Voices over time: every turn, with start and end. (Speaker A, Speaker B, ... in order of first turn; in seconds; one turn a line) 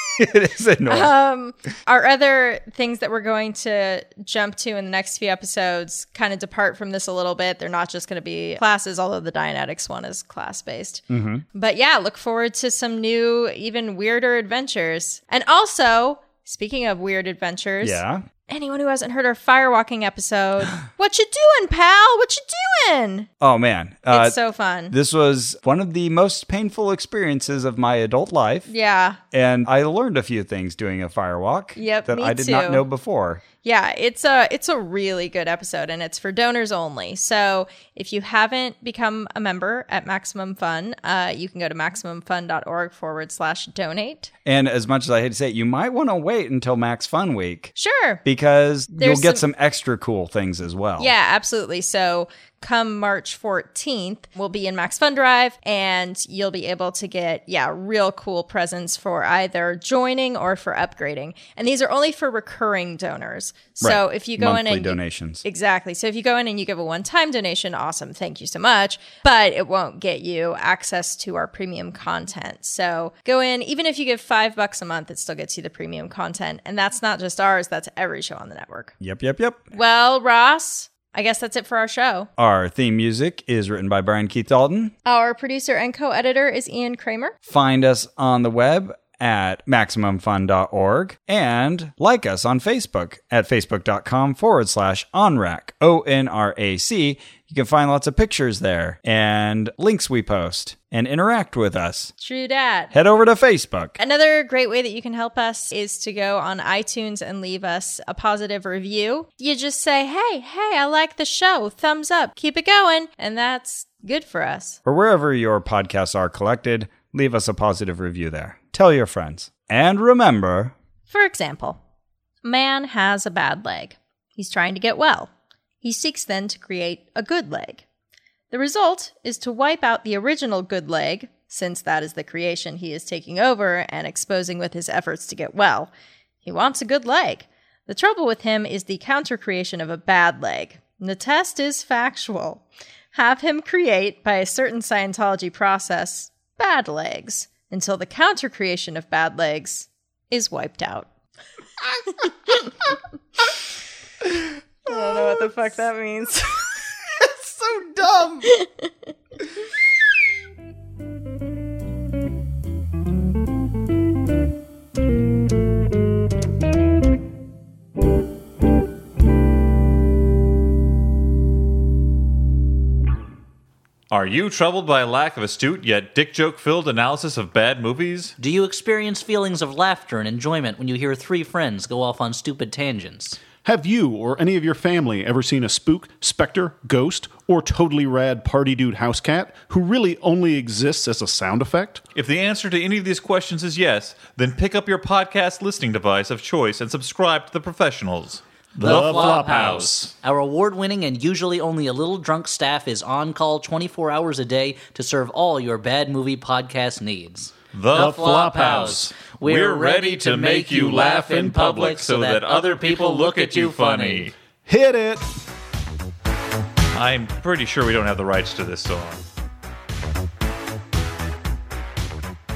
Speaker A: 0.2-1.1
Speaker B: 0.9-23.3
Speaker A: 11.1-11.4
Speaker A: 17.8-18.2
Speaker A: 23.4-24.4
Speaker B: 24.1-24.9
Speaker A: 24.9-28.7
Speaker B: 28.7-29.2
Speaker A: 29.3-33.4
Speaker B: 31.8-32.9
Speaker B: 33.6-44.3
Speaker A: 44.4-47.7
Speaker B: 47.7-48.2
Speaker A: 48.2-51.1
Speaker B: 49.0-49.4
Speaker B: 51.0-78.9
Speaker A: 63.8-65.4
Speaker A: 79.0-79.7
Speaker B: 79.7-82.3
Speaker A: 82.4-84.9
Speaker B: 85.0-87.3
Speaker A: 87.4-102.1
Speaker B: 102.2-102.9
Speaker A: 102.9-104.0
Speaker B: 104.0-114.8
Speaker A: 114.8-120.7
Speaker B: 121.1-121.8
Speaker B: 122.4-125.3
Speaker B: 125.8-127.8
Speaker B: 128.5-135.9
Speaker B: 136.4-151.1
Speaker B: 154.8-156.7
Speaker A: 154.9-155.4
Speaker A: 157.2-158.5
Speaker B: 158.4-158.9
Speaker C: 174.1-178.3
Speaker D: 178.4-183.4
Speaker E: 183.6-192.0
Speaker C: 192.1-200.1
Speaker E: 198.8-200.1
Speaker D: 198.8-214.2
Speaker C: 207.7-214.3
Speaker E: 207.9-209.1
Speaker E: 214.6-215.3
Speaker C: 216.9-219.2